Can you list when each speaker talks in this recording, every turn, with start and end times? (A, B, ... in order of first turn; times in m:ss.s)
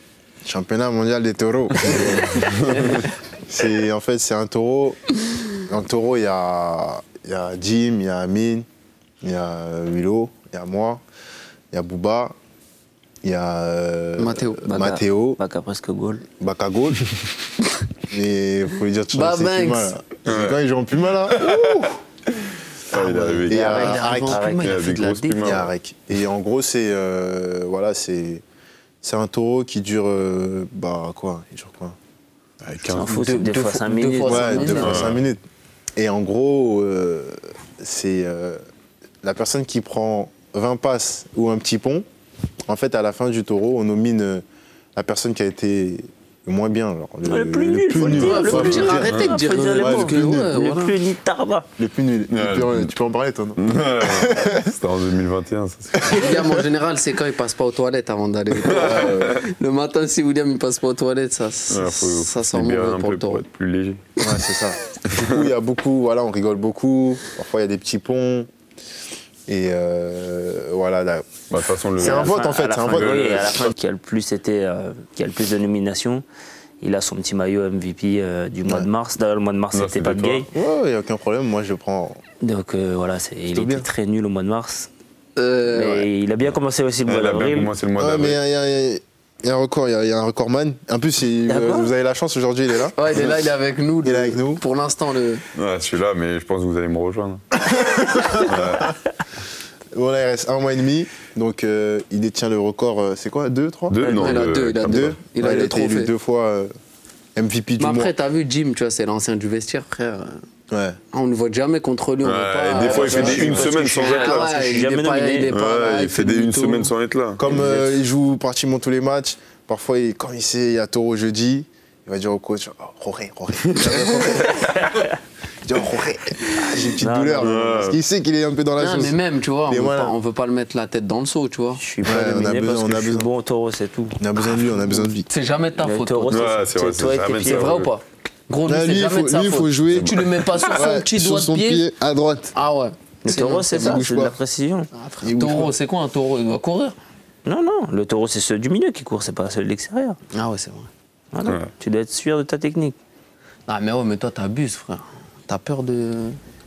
0:00.4-0:08.6 A
0:02.0-0:02.9 B
0:09.2-0:11.0 A
0:11.7-0:12.3 A
0:13.2-0:15.4 A
0:14.2-0:14.9 C
0:14.7-0:16.2 D
0:16.3-0:17.0 A
0:18.1-0:21.5 A
0:19.1-0:19.9 C
0:20.2-0:20.6 B
0:21.3-0:21.9 B
0:21.5-0:21.9 C
0:22.9-0:25.7 B
0:22.9-0:24.5 A
0:23.2-0:25.6 C
0:23.7-0:24.8 D
0:25.4-0:28.4 A
0:29.0-0:32.0 A
0:32.6-0:33.2 B
0:32.9-0:34.8 D
0:32.9-0:35.2 C
0:34.2-0:35.4 A
0:34.8-0:35.2 B
0:36.0-0:38.6 A
0:39.2-0:42.0 A
0:42.6-0:44.4 A
0:45.0-0:50.5 A
0:47.3-0:51.7 D
0:48.0-0:48.4 B
0:48.1-0:51.0 C
0:51.8-0:54.7 A
0:52.3-0:52.9 B
0:53.6-0:56.3 B
0:56.0-0:56.5 A
0:56.1-1:03.4 C
0:58.6-0:59.1 A
1:01.7-1:04.0 B
1:04.2-1:08.5 A
1:09.5-1:11.4 A
1:11.5-1:13.7 B
1:12.0-1:13.6 A
1:12.0-1:16.2 D
1:16.8-1:20.5 D
1:18.6-1:18.9 A
1:19.7-1:20.4 B
1:20.5-1:22.2 A
1:22.4-1:24.9 D
1:23.5-1:23.9 A
1:25.4-1:26.1 C
1:25.7-1:27.7 D
1:26.4-1:28.4 B
1:28.0-1:33.4 A
1:31.5-1:31.9 D
1:33.0-1:35.4 C
1:34.0-1:34.6 A
1:35.5-1:37.4 B
1:37.7-1:38.9 A
1:38.4-1:38.9 B
1:39.9-1:44.1 A
1:43.9-1:45.2 B
1:44.0-1:46.1 C
1:44.9-1:46.7 A
1:47.4-1:48.1 A
1:47.8-1:50.4 C
1:50.7-1:51.0 A
1:51.1-1:56.9 C
1:52.2-1:54.6 B
1:52.9-1:53.8 A
1:54.1-1:55.5 D
1:55.5-1:57.4 B
1:57.4-2:05.0 A
1:57.6-1:57.9 C
2:05.6-2:10.1 A
2:07.0-2:07.9 D
2:07.4-2:08.0 B
2:08.8-2:11.9 C
2:11.8-2:15.0 D
2:12.0-2:13.3 A
2:14.2-2:15.3 A
2:15.3-2:16.7 C
2:15.8-2:17.7 D
2:16.2-2:17.9 B
2:17.4-2:21.9 C
2:18.6-2:22.5 A
2:22.5-2:24.1 C
2:23.2-2:24.9 D
2:23.8-2:24.4 A
2:24.9-2:27.0 C
2:25.2-2:25.7 A
2:27.4-2:30.2 D
2:30.3-2:30.9 C
2:31.3-2:33.0 D
2:31.4-2:31.7 B
2:33.7-2:36.4 C